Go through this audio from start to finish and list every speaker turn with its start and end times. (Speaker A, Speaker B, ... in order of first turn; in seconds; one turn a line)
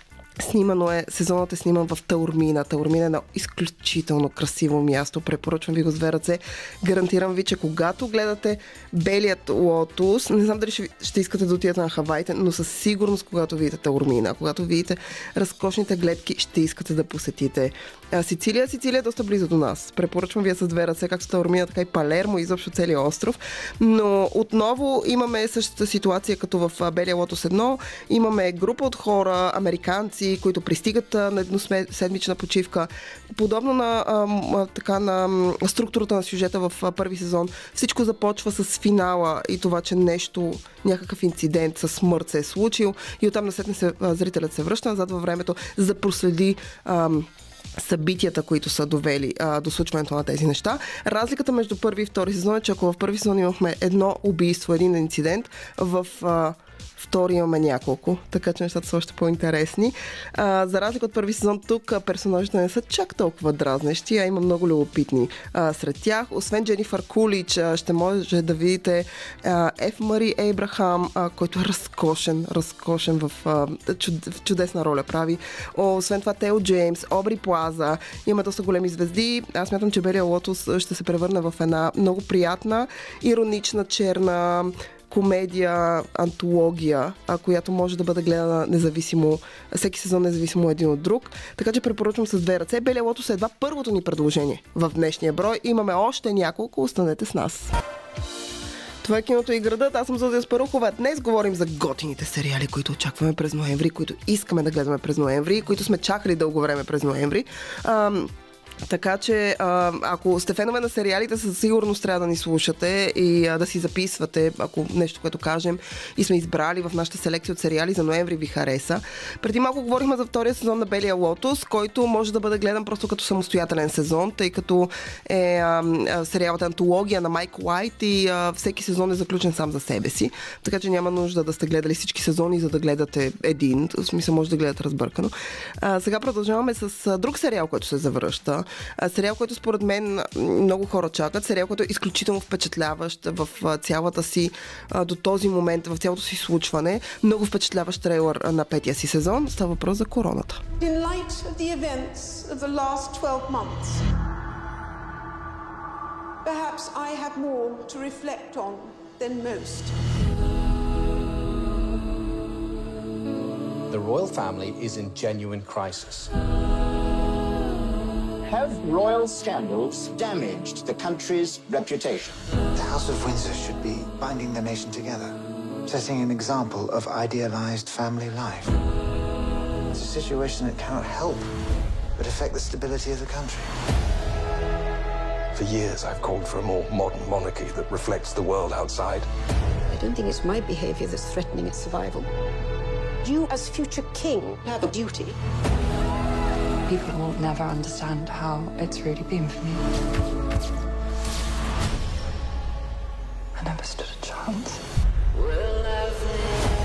Speaker A: 0.4-97.7
Speaker A: 99.0-108.3
Speaker A: 108.9-150.6
Speaker B: 150.8-154.1
Speaker B: 156.4-159.9
Speaker C: 163.9-166.3
Speaker D: 168.5-172.3
Speaker E: 172.7-178.8
Speaker E: 179.9-181.5
Speaker E: 182.2-183.7
Speaker F: 185.5-189.3
Speaker G: 189.9-192.3
Speaker G: 193.2-195.3
Speaker H: 196.9-199.8
Speaker H: 203.5-204.8